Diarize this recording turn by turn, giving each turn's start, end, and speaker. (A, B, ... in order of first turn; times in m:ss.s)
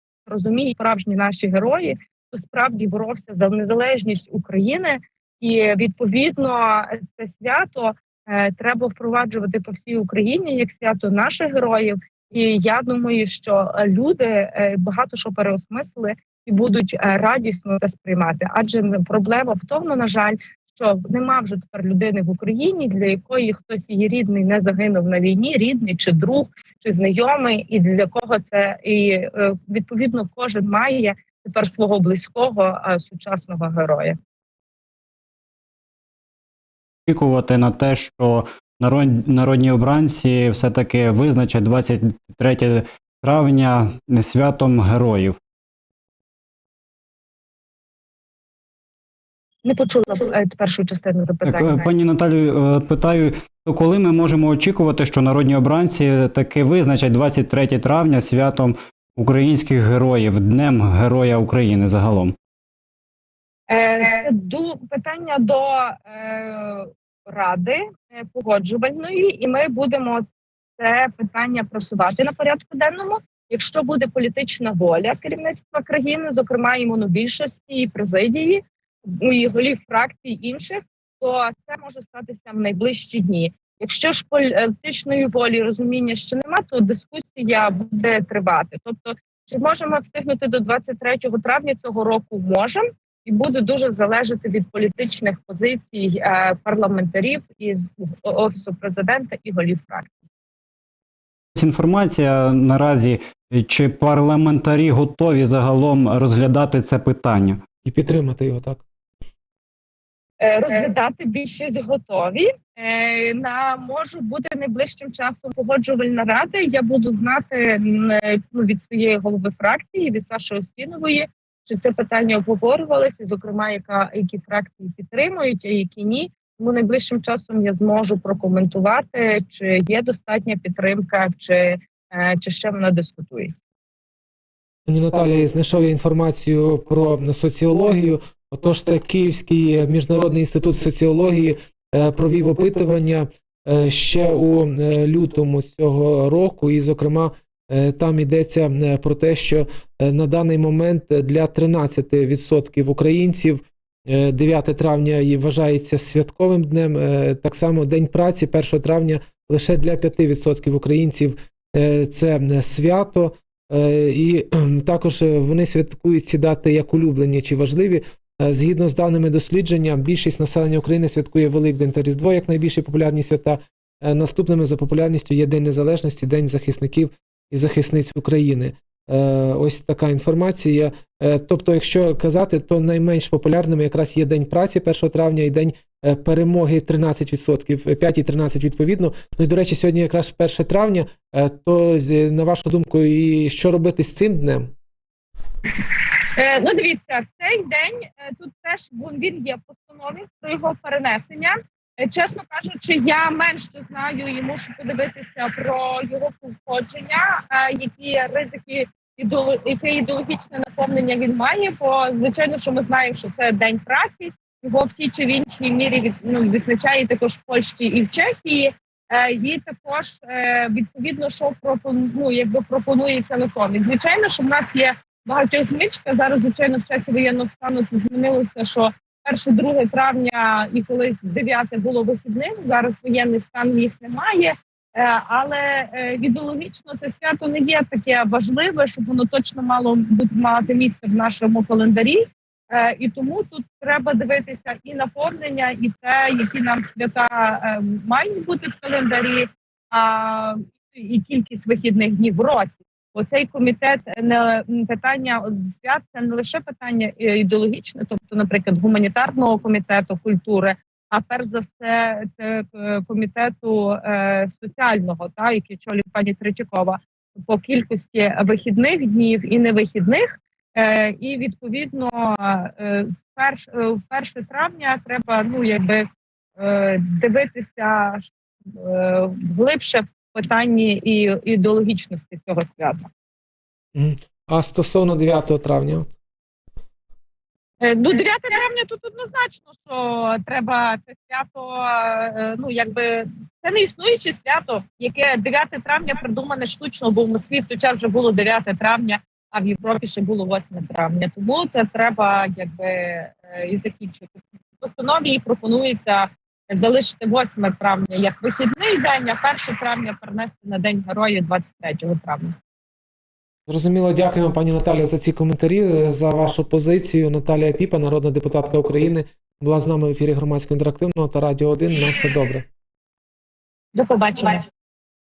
0:00.3-0:34.2 A
0:37.1-0:45.4 B
0:49.6-0:51.9 A
0:51.4-1:02.3 B
1:03.7-1:10.2 A
1:10.8-1:40.1 A
1:41.5-1:47.6 B
1:47.8-1:48.8 C
1:50.4-2:13.6 A
2:14.9-3:14.7 C
3:15.8-4:36.0 A
4:36.6-4:43.1 A
4:43.9-4:46.1 C
4:47.8-5:12.5 A
5:13.7-5:22.6 C
5:23.9-5:24.6 A